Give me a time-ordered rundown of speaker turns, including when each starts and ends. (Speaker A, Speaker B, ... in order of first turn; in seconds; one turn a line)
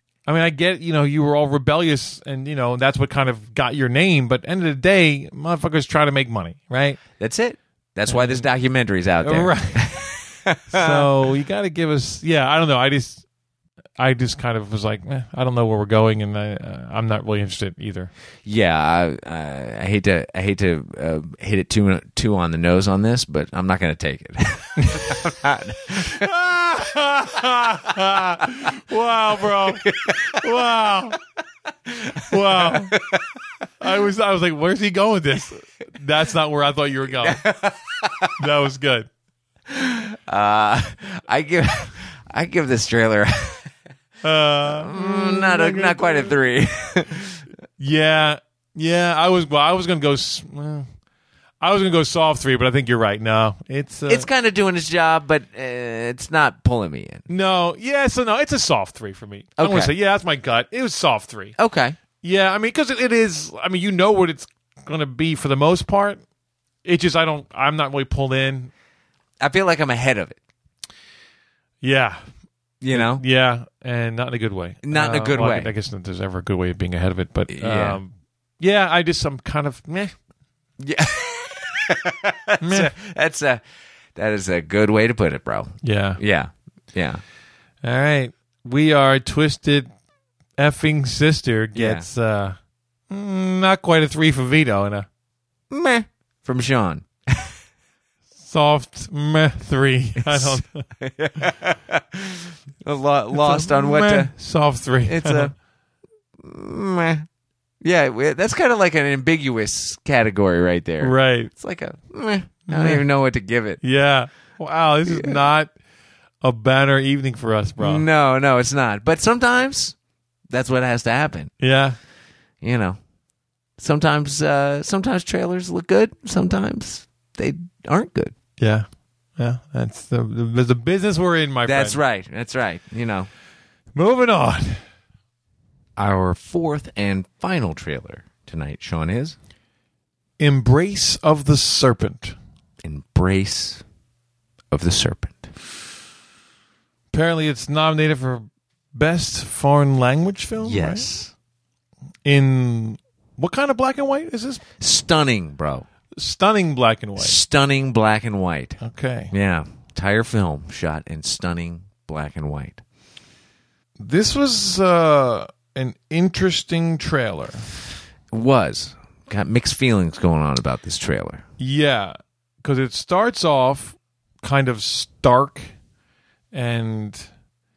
Speaker A: 0.3-7.0
Speaker B: 7.2-11.1
Speaker A: 8.1-8.4
Speaker A: 9.2-10.0
Speaker A: 10.7-13.2
Speaker A: 14.0-18.1
Speaker B: 18.4-26.2
Speaker A: 25.9-31.2
Speaker B: 29.5-30.4
Speaker B: 31.9-33.4
Speaker A: 32.1-33.0
Speaker A: 33.8-37.4
Speaker B: 37.2-38.3
Speaker A: 38.4-39.1
Speaker B: 39.7-43.7
Speaker A: 44.2-46.3
Speaker B: 44.7-47.4
Speaker A: 47.8-50.9
Speaker A: 51.6-54.3
Speaker B: 54.1-57.2
Speaker A: 57.3-61.5
Speaker B: 59.6-59.9
Speaker B: 61.6-62.0
Speaker A: 62.2-66.2
Speaker A: 66.8-68.7
Speaker B: 69.4-70.4
Speaker A: 71.8-72.2
Speaker B: 72.8-73.2
Speaker A: 72.9-80.1
Speaker B: 74.8-75.7
Speaker B: 77.5-78.0
Speaker B: 80.8-83.6
Speaker A: 82.6-82.9
Speaker B: 84.2-87.2
Speaker A: 85.8-86.2
Speaker A: 87.8-89.9
Speaker A: 90.6-92.6
Speaker B: 91.7-92.1
Speaker A: 93.1-95.1
Speaker B: 95.7-97.5
Speaker A: 98.4-100.8
Speaker B: 100.2-104.3
Speaker A: 103.3-105.5
Speaker B: 105.0-105.5
Speaker B: 106.4-107.3
Speaker B: 107.8-113.8
Speaker A: 111.0-111.5
Speaker A: 112.7-113.0
Speaker A: 113.8-115.7
Speaker B: 115.1-115.4
Speaker A: 116.4-118.0
Speaker B: 117.8-120.0
Speaker B: 120.5-121.5
Speaker A: 121.6-122.0
Speaker B: 122.6-123.0
Speaker B: 123.8-128.3
Speaker A: 128.6-128.8
Speaker A: 129.4-132.0
Speaker B: 131.7-133.3
Speaker A: 133.9-134.8
Speaker B: 136.0-139.3
Speaker A: 140.4-142.3
Speaker B: 142.8-143.8
Speaker B: 144.7-145.5
Speaker A: 147.1-151.1
Speaker B: 150.6-151.3
Speaker A: 152.2-154.6
Speaker B: 154.8-155.8
Speaker A: 156.2-157.4
Speaker B: 157.2-158.8
Speaker A: 158.8-159.3
Speaker B: 159.3-162.8
Speaker A: 164.0-167.7
Speaker B: 168.3-171.4
Speaker A: 171.6-175.7
Speaker A: 176.5-177.3